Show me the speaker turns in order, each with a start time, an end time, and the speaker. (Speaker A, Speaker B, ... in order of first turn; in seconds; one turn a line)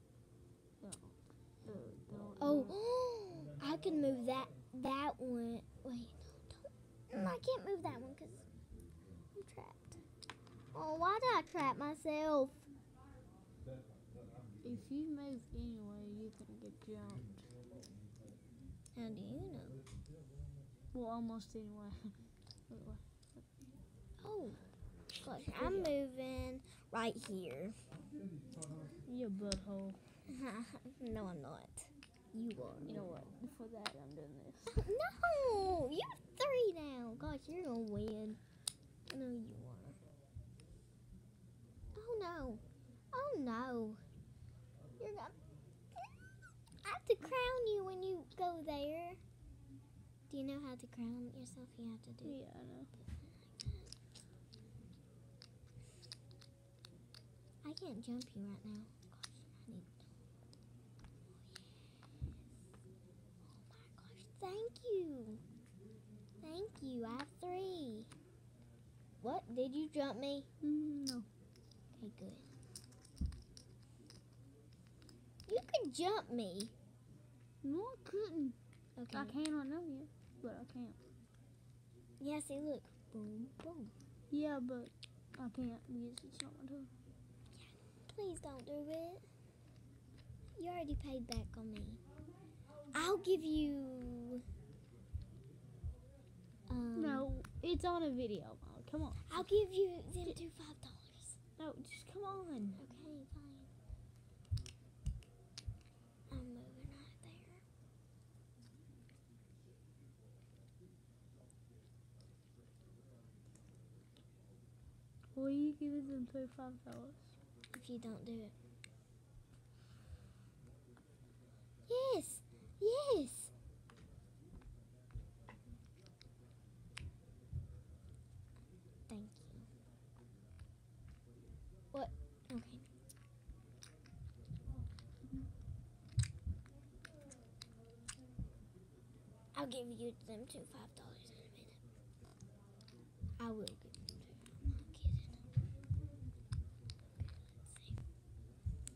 Speaker A: 0.8-2.7
Speaker B: 2.4-8.5
Speaker B: 9.3-10.0
Speaker B: 10.7-12.7
Speaker A: 14.6-17.4
Speaker B: 18.9-19.8
Speaker A: 20.9-22.1
Speaker A: 22.7-23.4
Speaker B: 24.2-24.6
Speaker B: 25.2-27.8
Speaker A: 25.5-26.0
Speaker A: 29.1-30.0
Speaker B: 30.3-33.2
Speaker A: 32.9-34.8
Speaker B: 34.7-38.4
Speaker B: 39.1-40.0
Speaker B: 41.9-44.0
Speaker B: 45.0-45.4
Speaker B: 46.8-49.2
Speaker B: 50.3-52.4
Speaker A: 52.2-52.9
Speaker B: 53.0-53.9
Speaker B: 57.6-59.9
Speaker B: 61.4-61.7
Speaker B: 63.5-65.4
Speaker B: 66.4-68.1
Speaker B: 69.2-70.5
Speaker A: 70.6-71.3
Speaker B: 72.0-72.4
Speaker B: 75.5-76.7
Speaker A: 77.6-78.5
Speaker B: 79.0-79.3
Speaker A: 79.1-81.0
Speaker B: 82.2-83.9
Speaker A: 84.3-86.9
Speaker B: 87.5-89.2
Speaker B: 90.5-92.0
Speaker B: 92.9-94.4
Speaker B: 96.7-97.3
Speaker A: 96.9-99.5
Speaker B: 99.2-101.4
Speaker A: 101.6-102.8
Speaker B: 102.8-103.7
Speaker B: 106.3-107.6
Speaker A: 115.3-117.2
Speaker B: 117.7-118.5
Speaker B: 121.9-123.5
Speaker B: 129.1-129.7
Speaker B: 131.9-132.8
Speaker B: 139.5-141.8
Speaker B: 143.4-145.4
Speaker B: 147.6-147.9